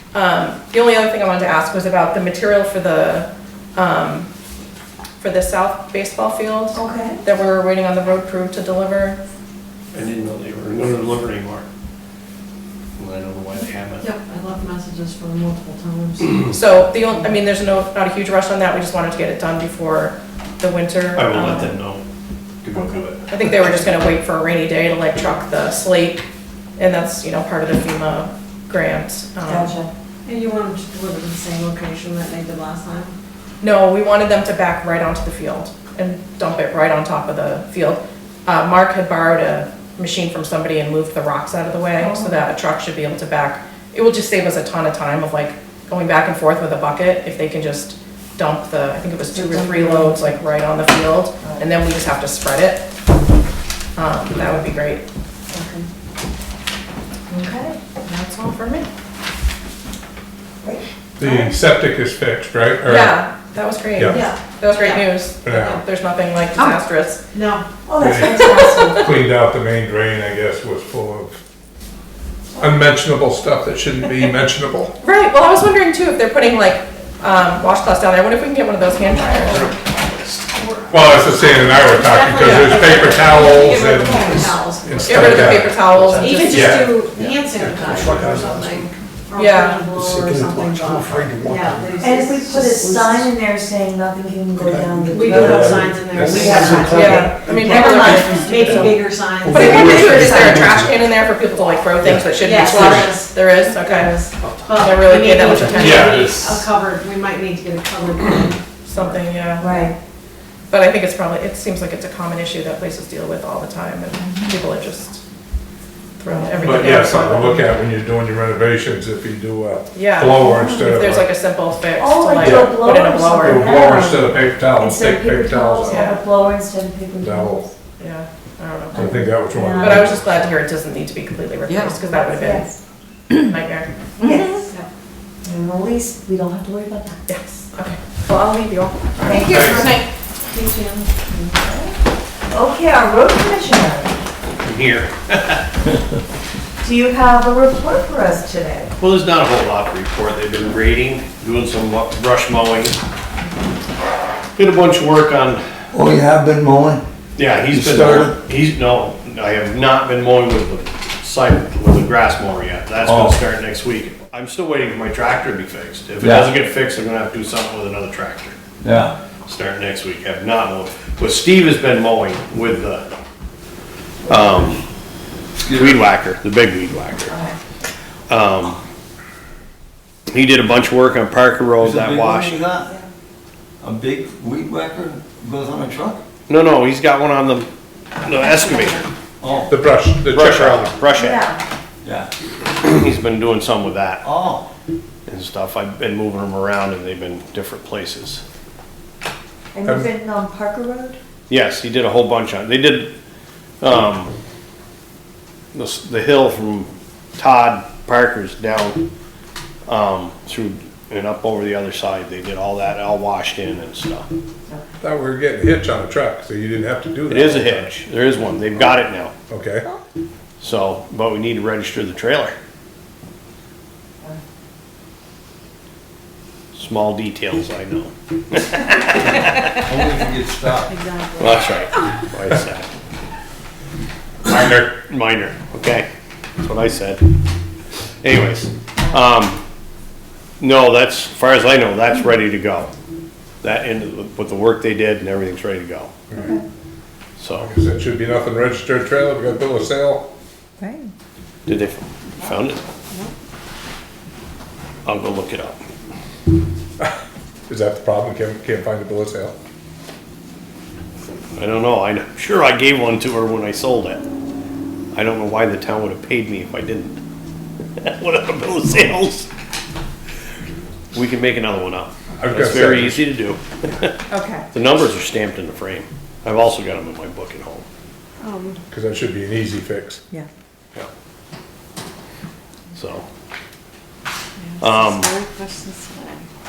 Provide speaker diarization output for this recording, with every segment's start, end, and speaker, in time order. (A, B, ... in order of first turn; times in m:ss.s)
0:00.1-0:04.3 A
0:05.2-0:09.2 A
0:06.7-0:07.2 B
0:09.9-0:11.7 C
0:13.0-0:14.1 C
0:14.0-0:16.5 D
0:16.5-0:21.8 A
0:21.2-0:22.0 C
0:22.6-0:23.6 C
0:23.3-0:26.2 A
0:26.8-0:29.7 A
0:29.4-0:29.9 B
0:30.2-0:33.2 D
0:33.6-0:52.9 A
0:42.0-0:42.4 B
0:49.3-0:50.3 B
0:54.0-0:55.0 A
0:55.5-0:55.9 B
0:57.3-0:57.8 B
0:58.0-0:58.9 A
1:00.6-1:01.5 B
1:01.2-1:03.2 E
1:02.8-1:07.2 A
1:04.0-1:04.3 E
1:04.0-1:05.8 D
1:05.4-1:05.8 E
1:07.3-1:07.8 D
1:07.8-1:09.1 B
1:08.0-1:11.4 E
1:08.1-1:08.9 A
1:12.6-1:15.0 E
1:15.0-1:19.7 A
1:19.3-1:20.5 C
1:20.5-1:25.6 D
1:20.9-1:27.1 E
1:22.4-1:22.8 A
1:24.0-1:24.4 B
1:25.0-1:27.0 A
1:25.9-1:26.3 C
1:26.1-1:33.3 D
1:27.0-1:27.4 C
1:28.0-1:28.4 F
1:29.4-1:29.9 A
1:30.4-1:31.8 F
1:32.0-1:37.4 B
1:34.6-1:36.7 E
1:35.1-1:40.8 D
1:36.7-1:37.2 F
1:36.9-1:44.1 A
1:37.2-1:37.8 E
1:39.5-1:40.9 E
1:42.0-1:43.1 E
1:42.1-1:49.2 D
1:44.8-1:46.2 A
1:45.5-1:46.7 E
1:48.8-1:49.9 A
1:49.6-1:50.0 B
1:50.7-1:55.2 A
1:56.2-1:57.6 A
1:56.3-1:56.8 B
1:56.6-2:01.3 E
1:59.9-2:03.8 A
2:00.4-2:00.9 B
2:02.0-2:07.7 B
2:02.4-2:02.8 E
2:03.4-2:06.1 E
2:05.9-2:06.2 A
2:07.2-2:07.7 E
2:08.0-2:12.7 A
2:08.9-2:10.1 B
2:08.9-2:10.5 E
2:12.1-2:12.8 B
2:13.4-2:13.9 A
2:14.2-2:14.7 B
2:15.4-2:17.2 B
2:17.3-2:20.0 A
2:19.2-2:19.9 E
2:19.2-2:22.0 B
2:22.5-2:24.2 B
2:24.6-2:25.7 C
2:26.8-2:28.9 B
2:29.0-2:33.0 C
2:34.6-2:35.6 C
2:35.9-2:37.0 F
2:37.4-2:48.6 C
2:37.7-2:38.4 F
2:43.0-2:43.4 F
2:46.2-2:46.5 F
2:48.8-2:49.2 F
2:49.5-2:53.1 C
2:54.3-2:54.8 C
2:55.6-2:56.1 F
2:55.7-2:57.4 C
2:57.3-2:57.6 B
2:58.3-2:58.8 C
3:00.3-3:02.6 C
3:01.8-3:03.0 F
3:03.8-3:06.2 F
3:06.5-3:09.1 C
3:08.5-3:09.0 B
3:09.4-3:09.7 F
3:09.7-3:11.0 E
3:10.3-3:11.5 C
3:11.1-3:11.6 B
3:12.0-3:12.3 F
3:12.8-3:14.2 C
3:14.2-3:14.6 F
3:15.3-3:18.4 C
3:19.7-3:21.2 B
3:21.5-3:23.1 C
3:23.8-3:24.3 C
3:25.7-3:29.1 C
3:29.9-3:34.3 C
3:35.0-3:37.9 E
3:37.3-3:39.3 C
3:39.5-3:39.9 E
3:40.6-3:42.6 C
3:46.8-3:49.7 C
3:49.6-3:51.0 F
3:50.8-3:51.7 D
3:51.4-3:52.9 C
3:54.4-3:56.1 C
3:56.6-3:57.2 C
3:58.2-3:59.6 C
4:00.6-4:02.9 C
4:03.6-4:06.1 C
4:06.3-4:06.6 B
4:07.4-4:07.7 C
4:07.6-4:10.3 E
4:10.8-4:11.1 B
4:11.7-4:12.8 C
4:15.0-4:15.8 C
4:17.7-4:19.6 E
4:21.6-4:24.2 C
4:25.1-4:27.2 C
4:28.0-4:29.5 C
4:31.1-4:34.2 C
4:32.4-4:33.2 E
4:34.3-4:34.6 A
4:34.7-4:37.9 C
4:38.4-4:38.8 D
4:38.9-4:40.2 E
4:42.9-4:43.2 C
4:44.6-4:46.5 D
4:44.8-4:45.4 C